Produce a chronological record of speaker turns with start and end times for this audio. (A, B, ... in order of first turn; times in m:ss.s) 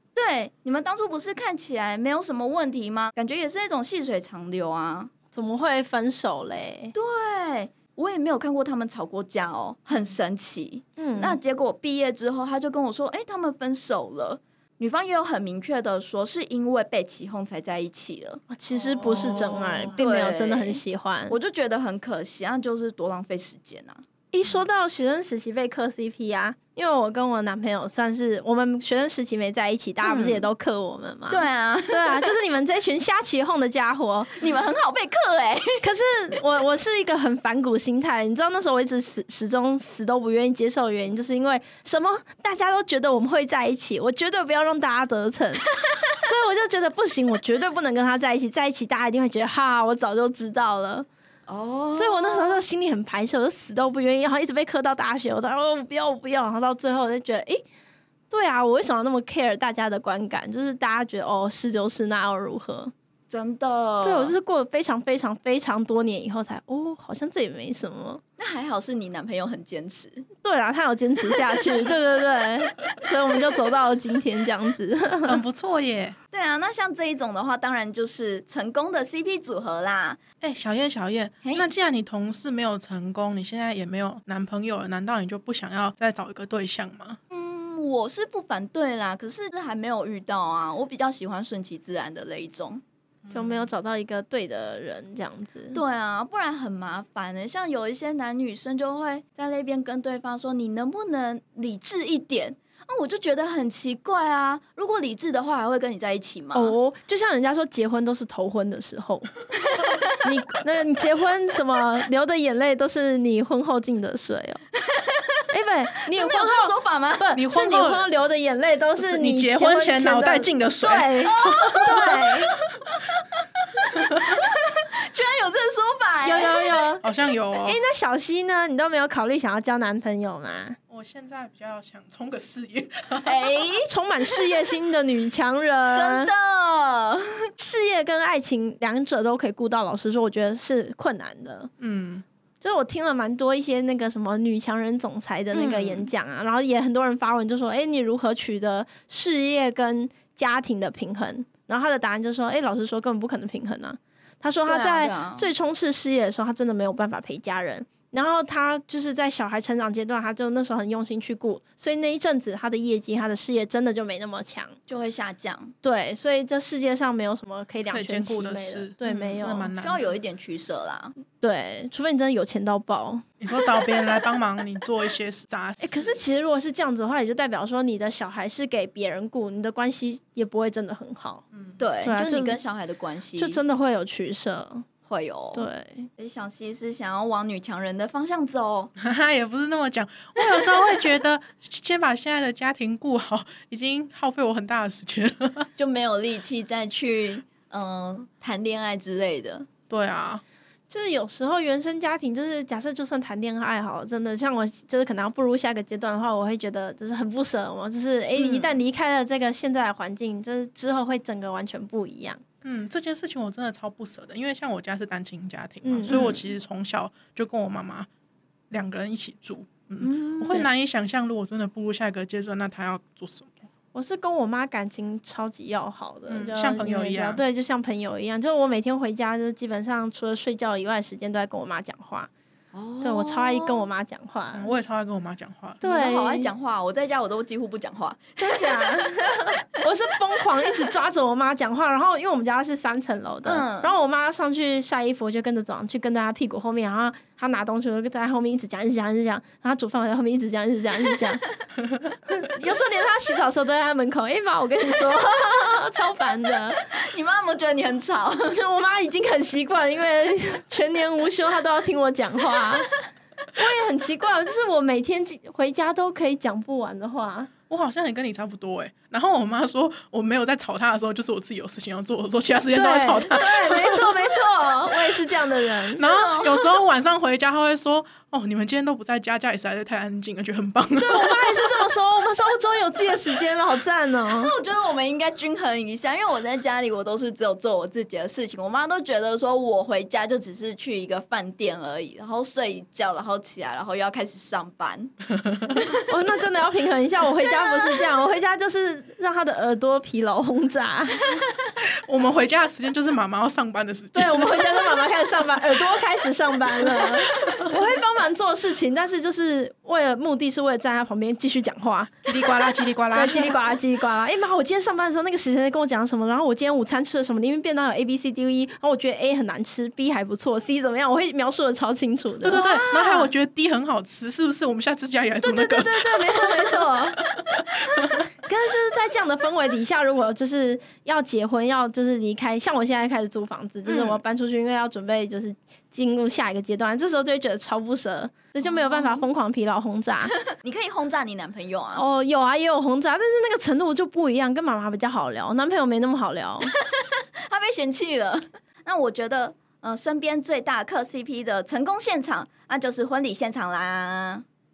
0:00.2-0:05.1 A
0:05.3-0:06.9 B
0:06.9-0:18.4 A
0:11.0-0:11.4 B
0:18.5-0:21.4 B
0:18.7-0:20.0 C
0:19.1-0:24.0 A
0:24.3-0:34.4 B
0:30.0-0:30.5 A
0:31.3-0:32.3 A
0:34.4-0:35.7 A
0:35.8-0:45.7 B
0:46.2-0:51.1 B
0:51.5-0:52.6 A
0:51.9-0:57.6 B
0:58.3-1:02.9 B
1:03.3-1:04.4 A
1:04.0-1:08.2 B
1:08.4-1:10.3 A
1:10.4-1:15.4 B
1:15.3-1:16.2 C
1:16.3-1:20.2 A
1:20.4-1:27.2 C
1:21.4-1:21.7 A
1:27.3-1:32.8 A
1:33.2-1:33.7 C
1:33.3-1:35.8 B
1:35.7-1:46.8 A
1:46.5-1:49.3 B
1:50.2-1:54.6 B
1:55.5-2:02.5 B
1:56.1-1:57.2 A
1:57.3-1:58.1 C
1:59.0-2:02.2 C
2:01.2-2:02.2 A
2:04.3-2:06.5 A
2:06.2-2:07.0 B
2:07.0-2:07.8 C
2:07.6-2:10.8 B
2:10.9-2:13.4 C
2:13.2-2:13.9 A
2:13.8-2:16.3 B
2:15.9-2:17.4 A
2:17.6-2:21.7 B
2:21.8-2:22.2 C
2:22.6-2:44.8 B
2:25.5-2:26.1 A
2:34.7-2:35.5 A
2:44.9-2:45.7 A
2:45.8-2:49.7 B
2:47.9-2:50.1 C
2:49.8-2:51.2 A
2:51.4-2:53.2 B
2:53.4-2:56.2 C
2:55.8-3:01.4 B
3:01.5-3:01.8 C
3:01.8-3:03.6 A
3:02.0-3:02.6 B
3:03.4-3:04.8 B
3:05.1-3:05.7 A
3:05.5-3:06.1 B
3:06.2-3:08.9 A
3:09.0-3:15.7 C
3:15.8-3:19.7 A
3:19.9-3:20.4 C
3:20.9-3:32.4 B
3:28.4-3:28.8 A
3:32.6-3:38.1 C
3:35.8-3:36.4 B
3:38.7-3:43.7 C
3:40.0-3:40.5 A
3:43.9-3:52.3 B
3:46.3-3:47.4 C
3:52.7-3:53.9 A
3:53.0-3:54.7 B
3:54.5-3:55.8 C
3:55.8-3:56.5 B
3:55.8-3:59.0 A
3:58.4-4:11.4 B
4:03.4-4:04.0 A
4:12.3-4:16.8 B
4:16.9-4:18.5 A
4:18.5-4:22.9 B
4:23.5-4:27.5 B
4:27.7-4:34.1 C
4:32.7-4:36.0 B
4:36.0-4:36.8 A
4:36.0-4:41.9 C
4:41.0-4:44.5 B
4:44.3-4:55.1 A
4:56.1-5:01.3 B
5:01.8-5:05.2 C
5:04.1-5:12.3 B
5:06.8-5:07.7 C
5:12.2-5:13.8 C
5:13.1-5:23.2 B
5:22.4-5:27.4 C
5:22.5-5:23.0 A
5:25.4-5:27.2 B
5:28.4-5:40.3 B
5:33.9-5:34.2 C
5:38.6-5:39.2 A
5:40.6-5:42.0 A
5:42.0-5:46.7 B
5:47.0-5:54.4 A